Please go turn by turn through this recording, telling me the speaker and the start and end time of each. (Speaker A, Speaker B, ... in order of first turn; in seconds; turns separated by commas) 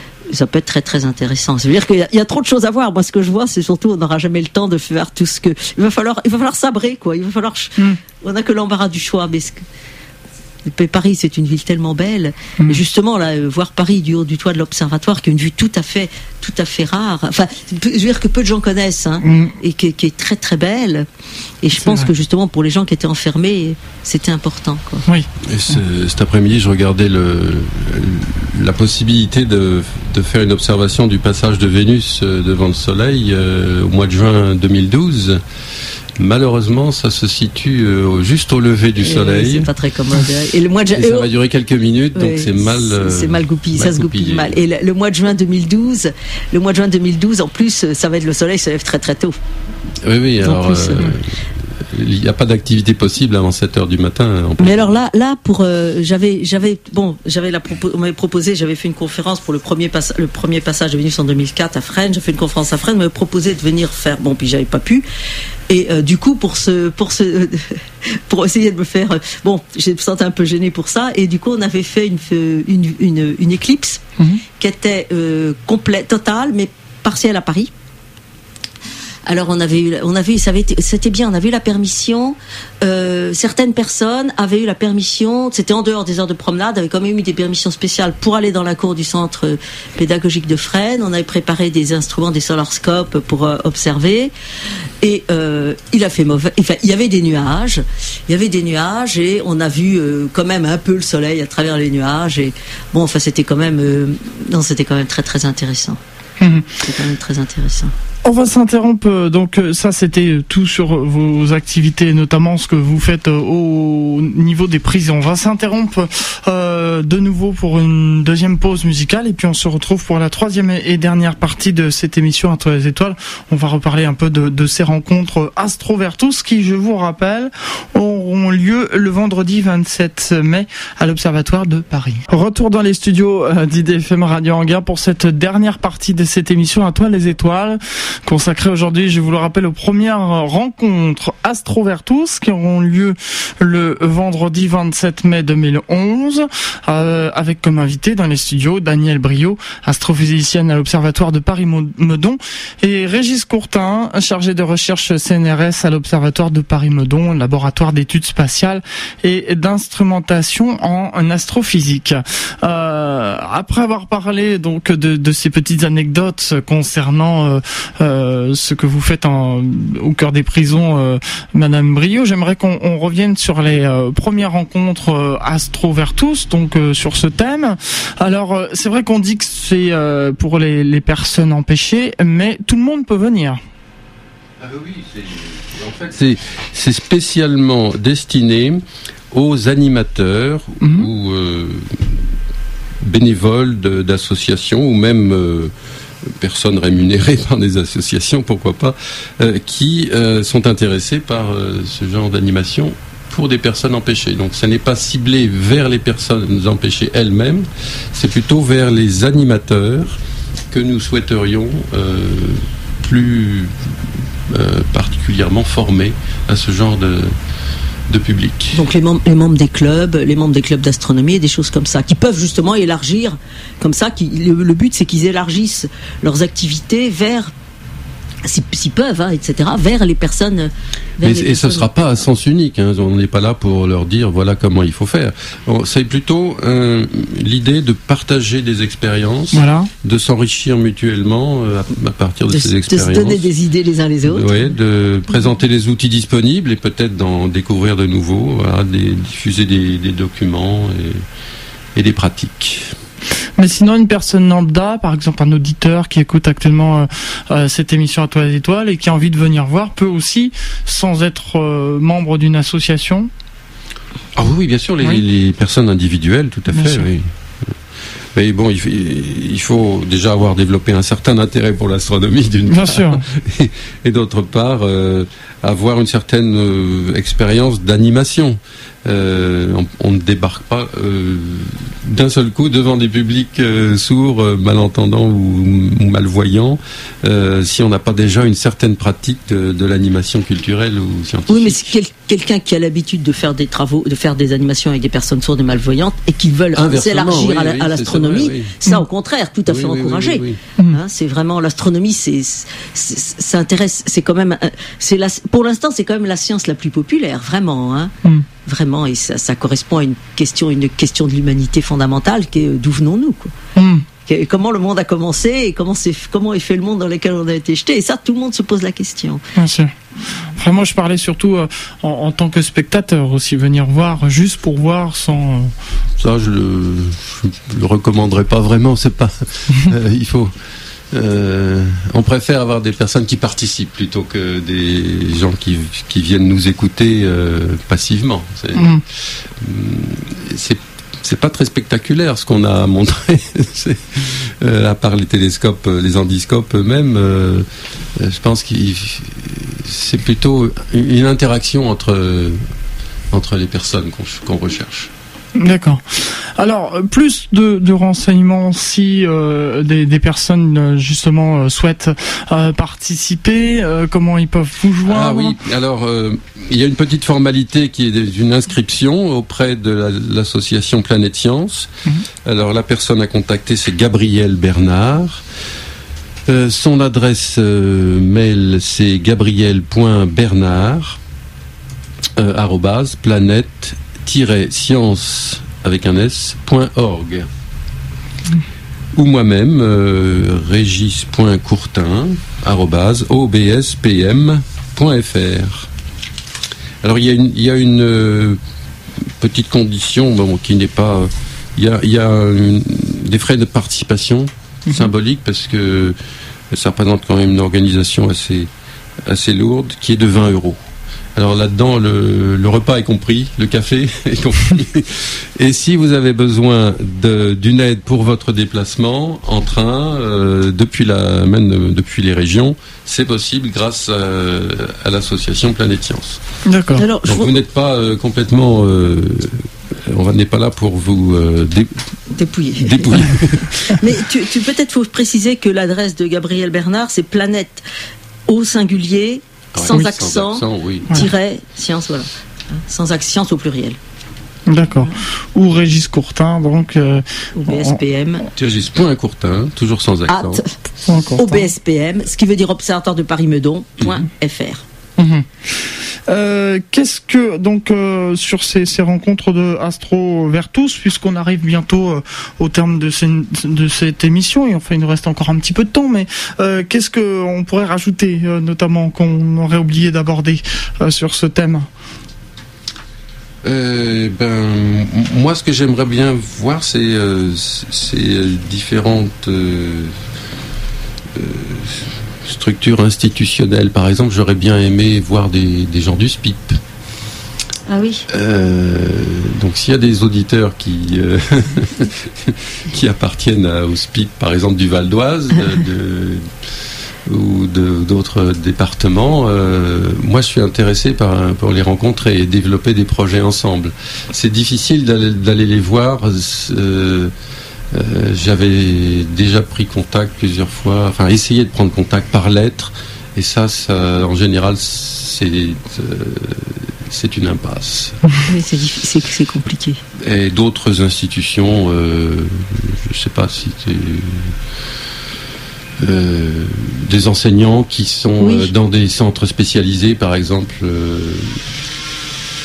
Speaker A: 0.3-9.6, Speaker A: 10.6-21.1, Speaker B: 19.2-19.6, Speaker A: 21.6-25.1, Speaker B: 21.8-22.1, Speaker C: 25.4-35.4, Speaker C: 36.2-39.7, Speaker A: 39.0-41.3, Speaker C: 40.9-44.6, Speaker A: 42.1-49.4, Speaker C: 50.0-54.9, Speaker A: 50.4-51.1, Speaker A: 54.6-65.1, Speaker A: 65.7-74.0, Speaker A: 74.6-77.7, Speaker A: 79.3-94.3, Speaker A: 95.0-106.0, Speaker B: 106.4-106.8, Speaker A: 106.8-107.9, Speaker B: 108.2-183.6, Speaker C: 184.6-192.2, Speaker B: 190.8-191.1, Speaker C: 193.0-210.2, Speaker C: 210.7-217.3, Speaker C: 218.1-218.8, Speaker A: 218.8-227.5, Speaker A: 228.4-231.9, Speaker C: 231.2-243.5, Speaker B: 239.5-239.9, Speaker A: 242.5-244.6, Speaker C: 244.3-251.2, Speaker C: 251.9-252.9, Speaker B: 253.6-263.3, Speaker C: 264.4-267.8, Speaker B: 266.7-267.1, Speaker C: 268.3-291.9, Speaker B: 272.7-273.2, Speaker A: 291.5-308.1, Speaker C: 296.7-298.8, Speaker C: 299.7-300.6, Speaker A: 308.6-313.5, Speaker B: 313.8-314.1, Speaker A: 314.3-319.4, Speaker B: 319.6-319.9, Speaker B: 320.6-325.7, Speaker C: 326.2-330.5, Speaker C: 331.1-352.6, Speaker B: 338.8-339.0, Speaker C: 353.3-355.1, Speaker B: 355.6-365.6, Speaker C: 365.1-371.9, Speaker C: 372.4-375.4, Speaker C: 376.5-381.2, Speaker C: 382.4-387.5, Speaker C: 389.1-395.9, Speaker C: 397.0-398.6, Speaker C: 399.4-406.2, Speaker C: 406.7-408.7, Speaker C: 409.3-410.8, Speaker C: 411.4-426.4, Speaker B: 426.7-427.1, Speaker A: 427.0-427.6, Speaker C: 427.2-432.1, Speaker A: 432.4-437.8, Speaker C: 432.8-434.1, Speaker A: 438.5-444.0, Speaker C: 439.8-441.3, Speaker B: 444.7-448.0, Speaker A: 447.6-448.5, Speaker C: 448.6-450.6, Speaker A: 450.3-450.8, Speaker B: 451.1-451.7, Speaker A: 451.4-454.8, Speaker B: 455.2-455.5, Speaker B: 456.3-471.9, Speaker C: 473.6-480.1, Speaker C: 481.3-486.8, Speaker A: 487.9-488.2, Speaker C: 488.3-507.3, Speaker C: 507.9-518.2, Speaker A: 518.5-520.0, Speaker C: 520.2-524.6, Speaker C: 526.0-531.6, Speaker A: 528.4-528.7